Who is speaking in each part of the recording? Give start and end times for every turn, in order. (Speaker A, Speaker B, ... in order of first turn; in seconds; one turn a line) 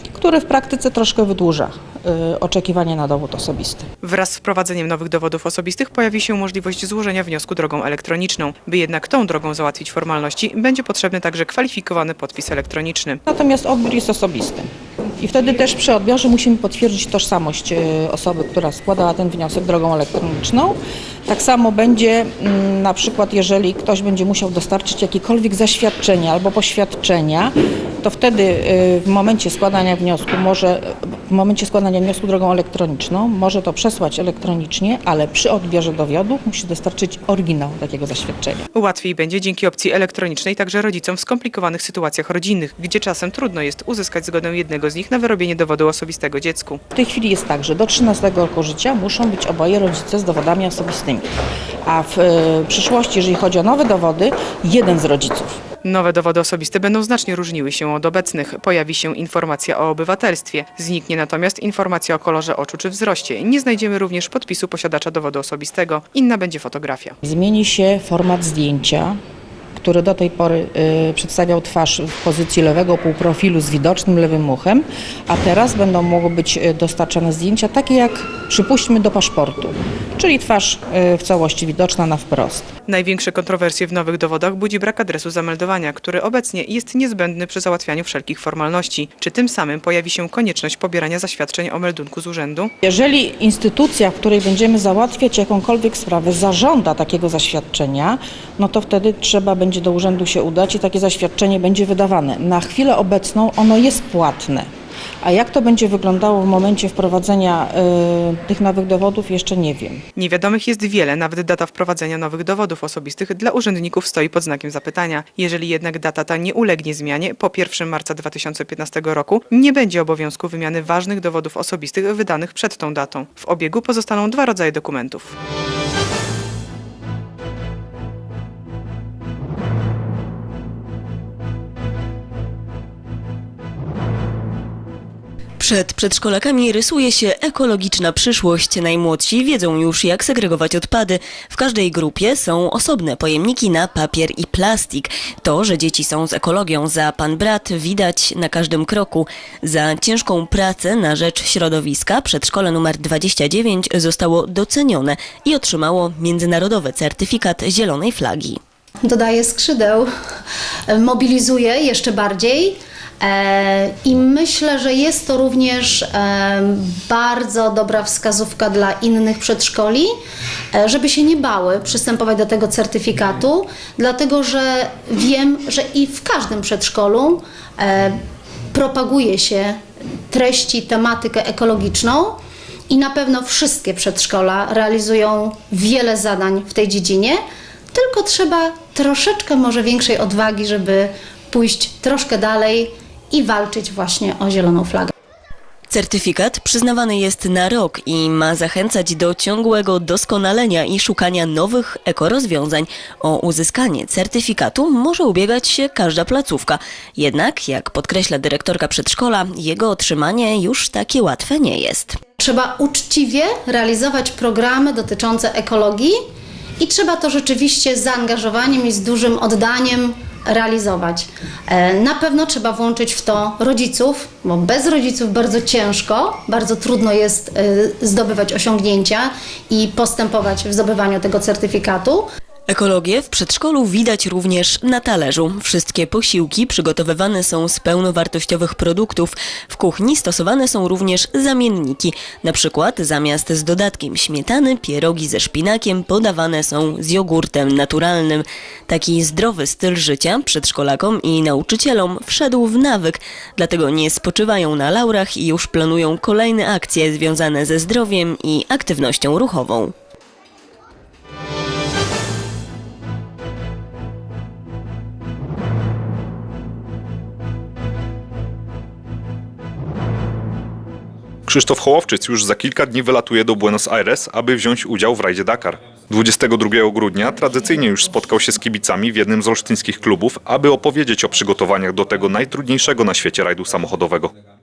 Speaker A: 0.1-3.9
Speaker B: 4.0-13.2
Speaker A: 13.2-38.6
Speaker B: 38.7-46.8
Speaker A: 46.9-51.3
Speaker A: 51.9-55.6
Speaker B: 55.8-67.2
Speaker A: 67.2-69.2
Speaker A: 69.8-82.7
Speaker B: 82.9-92.7
Speaker A: 92.8-104.7
Speaker A: 105.2-110.0
Speaker B: 110.2-125.3
Speaker C: 135.6-158.6
Speaker D: 159.0-160.1
Speaker D: 160.9-170.1
Speaker D: 170.7-178.2
Speaker D: 178.7-182.4
Speaker D: 182.9-187.4
Speaker D: 187.9-195.1
Speaker C: 195.9-212.2
Speaker D: 212.4-216.2
Speaker D: 216.8-232.2
Speaker C: 232.7-259.9
Speaker E: 271.5-284.3